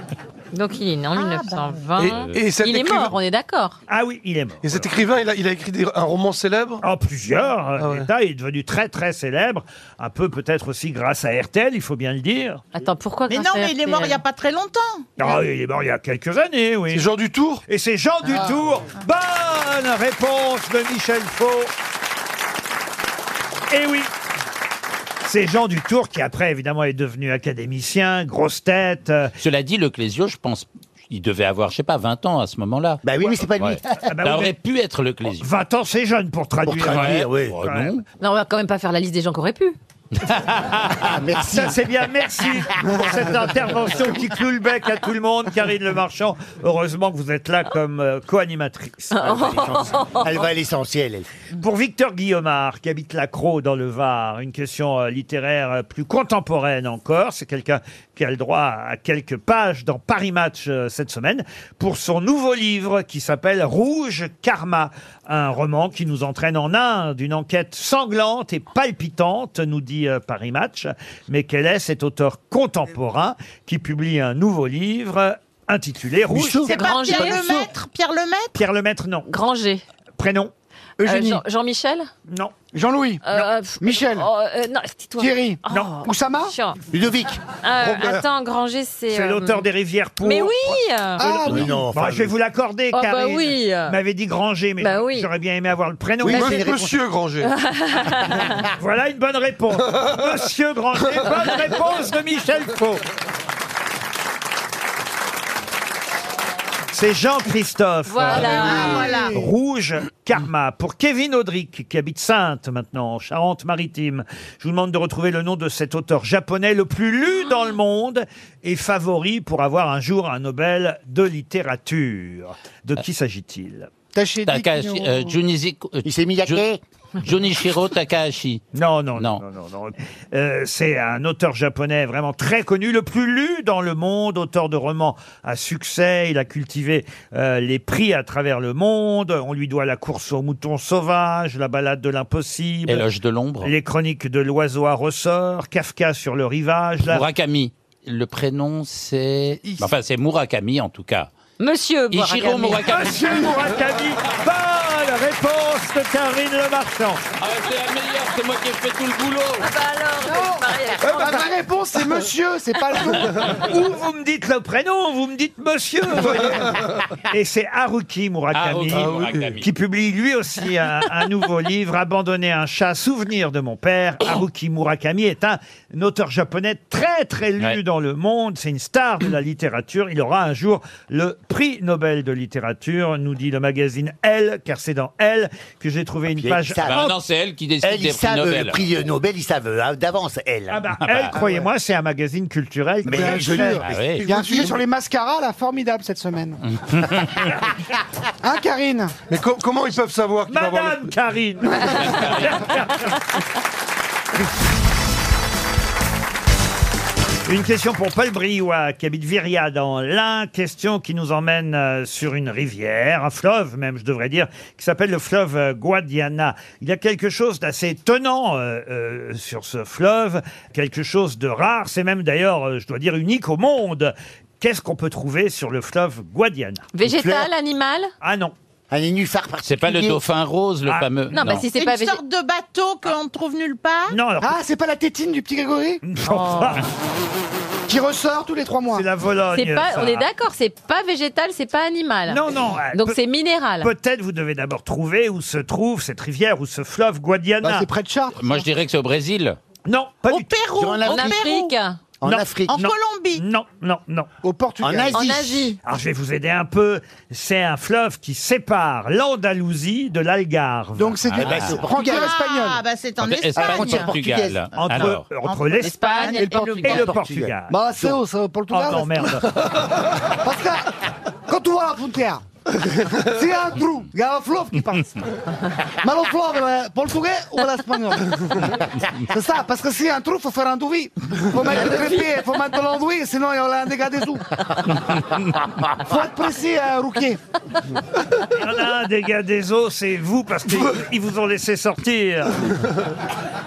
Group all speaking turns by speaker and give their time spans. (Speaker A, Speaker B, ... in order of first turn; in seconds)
Speaker A: 0.5-3.8, 12.8-14.2, 38.2-39.8, 49.1-50.4, 76.7-77.6, 79.3-79.8, 81.0-82.1, 83.2-86.8, 87.6-89.7, 90.2-91.2, 92.9-94.0, 94.8-95.3, 97.4-98.6, 108.1-109.3, 151.6-152.9, 159.6-161.5, 226.9-228.1, 231.3-232.2, 236.2-236.8, 239.5-243.9, 251.1-252.0, 255.1-255.8, 265.8-267.0
Speaker B: 1.2-1.9, 13.3-15.1, 76.6-78.6, 108.4-109.4, 231.7-234.2, 250.2-251.7, 252.7-253.4, 261.9-264.1, 265.4-267.0
Speaker C: 2.0-3.2, 4.6-6.8, 7.8-8.1, 16.9-17.6, 96.2-97.5, 99.9-100.3, 166.3-166.9, 168.9-169.6, 199.3-201.2
Speaker D: 2.0-2.4, 29.4-33.0, 33.6-35.5, 36.8-38.0, 40.2-41.2, 124.5-126.6, 127.2-128.6, 129.2-129.4, 142.9-143.7, 147.1-151.3, 152.1-153.6, 157.4-159.7, 168.5-169.7, 186.8-188.8, 191.0-191.3, 193.8-194.3, 196.6-197.5, 201.8-202.8, 229.6-231.7, 248.3-249.6, 261.3-261.9, 263.2-265.2
Speaker E: 3.9-4.9, 6.8-12.7, 15.2-17.1, 17.7-21.7, 23.7-24.1, 25.2-29.3, 34.1-34.5, 35.3-38.0, 41.5-49.6, 51.6-76.7, 78.5-79.3, 80.2-80.5, 82.3-82.5, 85.7-86.0, 89.1-90.8, 91.5-96.7, 98.8-103.0, 106.9-123.9, 128.7-143.1, 143.6-147.3, 152.8-157.2, 163.2-187.2, 190.7-193.8, 200.5-203.2, 207.5-226.9, 228.2-228.5, 234.1-234.5, 236.0-236.8, 238.9-240.3, 242.3-243.2, 243.8-247.9, 249.9-250.6, 252.2-254.3, 255.8-261.7, 264.8-267.8, 268.7-269.6, 288.5-292.7
Speaker F: 33.0-34.0, 36.6-37.6, 41.0-41.8, 49.2-51.3, 76.3-77.7, 86.9-87.4, 91.4-92.3, 96.2-96.9, 126.0-126.8, 186.3-187.0, 187.8-190.8, 193.0-194.8, 227.0-227.5, 228.9-230.2, 250.7-251.5, 252.2-252.8, 254.8-255.4, 261.4-262.4, 263.6-264.7, 266.8-268.2
Speaker G: 42.8-43.2, 81.0-81.4, 82.7-83.2, 83.8-84.3, 85.2-86.5, 91.2-91.7, 108.7-109.5, 124.1-125.4, 149.6-149.9, 160.2-163.4, 193.1-196.6, 198.4-199.1, 234.4-236.0, 237.9-239.1, 247.6-248.6, 254.4-255.6, 261.0-262.8, 266.3-266.9, 267.7-269.5, 270.4-270.9, 271.5-272.4, 273.3-275.2, 276.0-284.6, 286.0-287.4